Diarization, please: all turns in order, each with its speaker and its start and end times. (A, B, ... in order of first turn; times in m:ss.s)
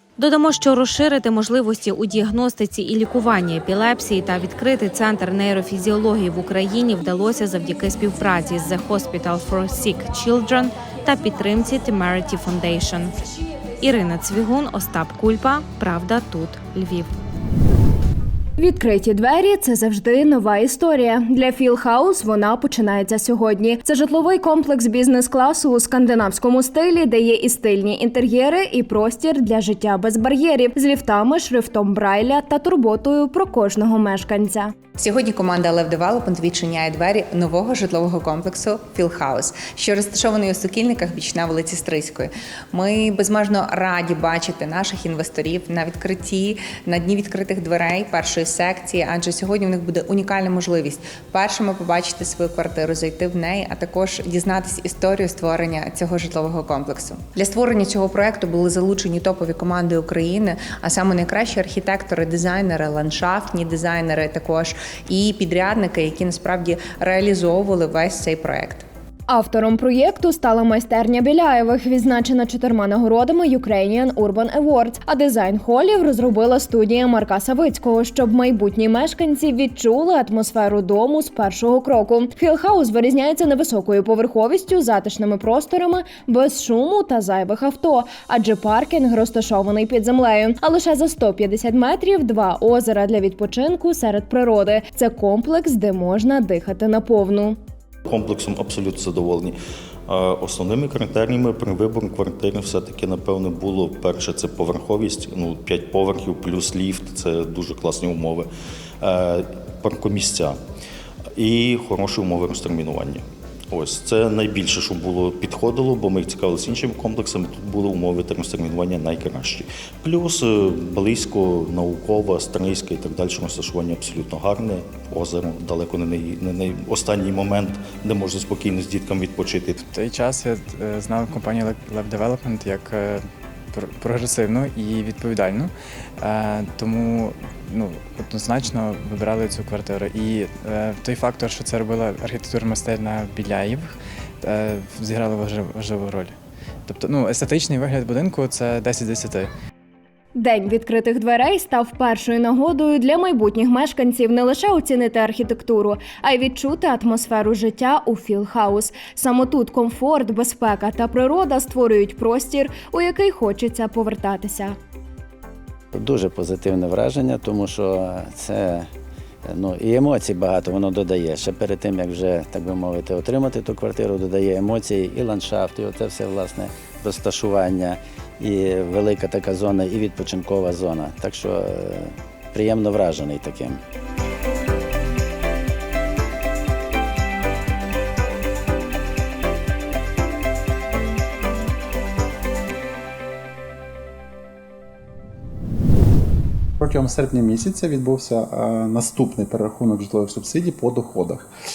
0:00.2-0:13.1 A
0:13.8-0:17.2 A
0:18.6-0:34.8 B
0:35.0-1:08.8 C
1:09.3-1:37.6 B
1:38.1-1:39.6 D
1:40.1-1:48.5 D
1:49.0-1:50.6 D
1:51.4-2:09.8 D
2:09.8-2:26.3 E
2:26.8-2:29.5 E
2:30.4-2:44.8 B
2:45.9-2:48.9 F
2:49.5-3:03.8 F
3:16.8-3:21.5 G